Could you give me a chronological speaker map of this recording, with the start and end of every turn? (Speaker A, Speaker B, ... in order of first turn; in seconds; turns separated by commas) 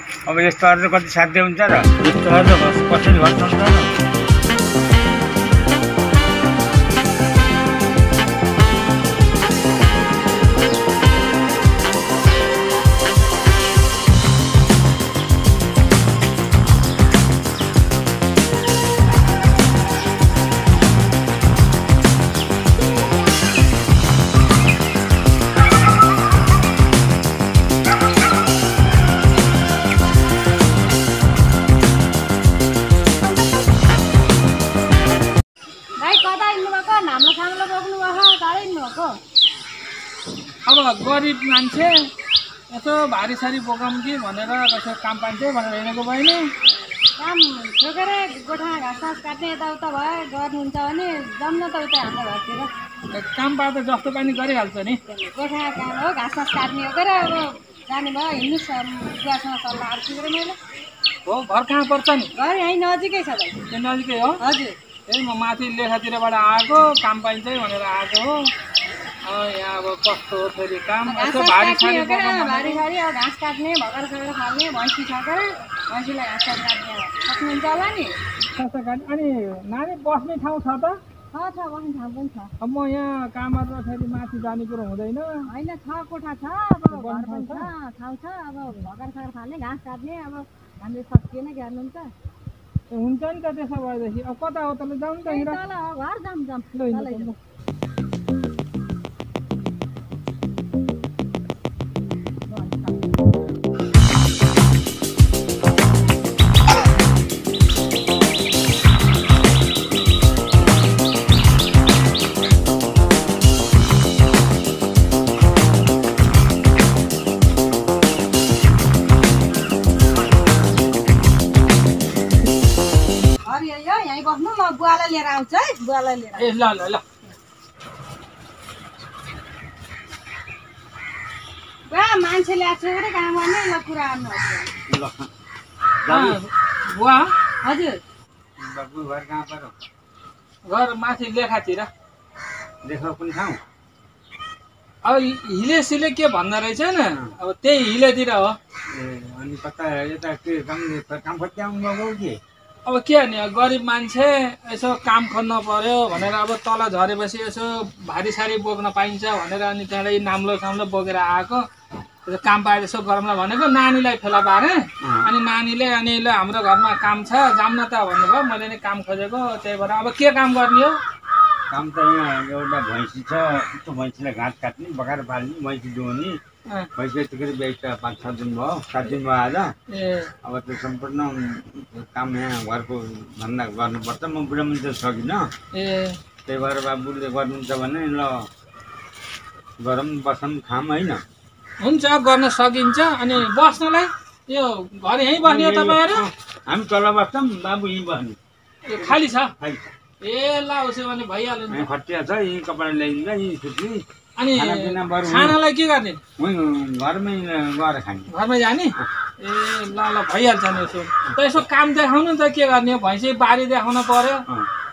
Speaker A: 0.3-3.9, Speaker B: 36.0-39.1, Speaker C: 40.7-41.9, Speaker C: 42.7-46.5, Speaker B: 47.2-52.7, Speaker C: 53.1-55.0, Speaker B: 55.1-60.6, Speaker C: 61.2-62.3, Speaker B: 62.4-63.6, Speaker C: 63.7-64.4, Speaker B: 64.4-64.8, Speaker C: 65.1-68.5, Speaker C: 69.2-72.8, Speaker B: 71.0-78.2, Speaker C: 78.5-81.0, Speaker B: 81.3-82.5, Speaker C: 82.6-85.4, Speaker B: 85.5-92.1, Speaker C: 86.9-87.7, Speaker C: 92.9-95.6, Speaker B: 95.2-97.4, Speaker C: 96.7-97.3, Speaker B: 102.5-103.2, Speaker B: 123.4-126.5, Speaker C: 126.4-127.0, Speaker B: 131.9-134.7, Speaker A: 134.9-135.3, Speaker A: 136.0-136.4, Speaker C: 136.1-137.3, Speaker B: 137.6-138.0, Speaker A: 138.6-139.7, Speaker C: 140.7-141.9, Speaker A: 142.8-143.6, Speaker C: 145.0-148.6, Speaker A: 148.9-152.4, Speaker C: 152.8-161.7, Speaker C: 162.2-171.0, Speaker A: 165.0-165.3, Speaker A: 171.7-176.4, Speaker A: 177.0-179.7, Speaker C: 179.9-180.3, Speaker A: 180.4-185.5, Speaker C: 185.7-186.2, Speaker A: 186.5-188.5, Speaker A: 189.8-191.2, Speaker C: 191.8-196.3, Speaker A: 195.4-198.4, Speaker C: 198.9-199.5, Speaker A: 198.9-199.9, Speaker C: 200.2-201.9, Speaker A: 201.7-204.0, Speaker C: 204.4-206.2, Speaker A: 204.5-205.6, Speaker A: 206.4-208.3, Speaker C: 208.3-214.4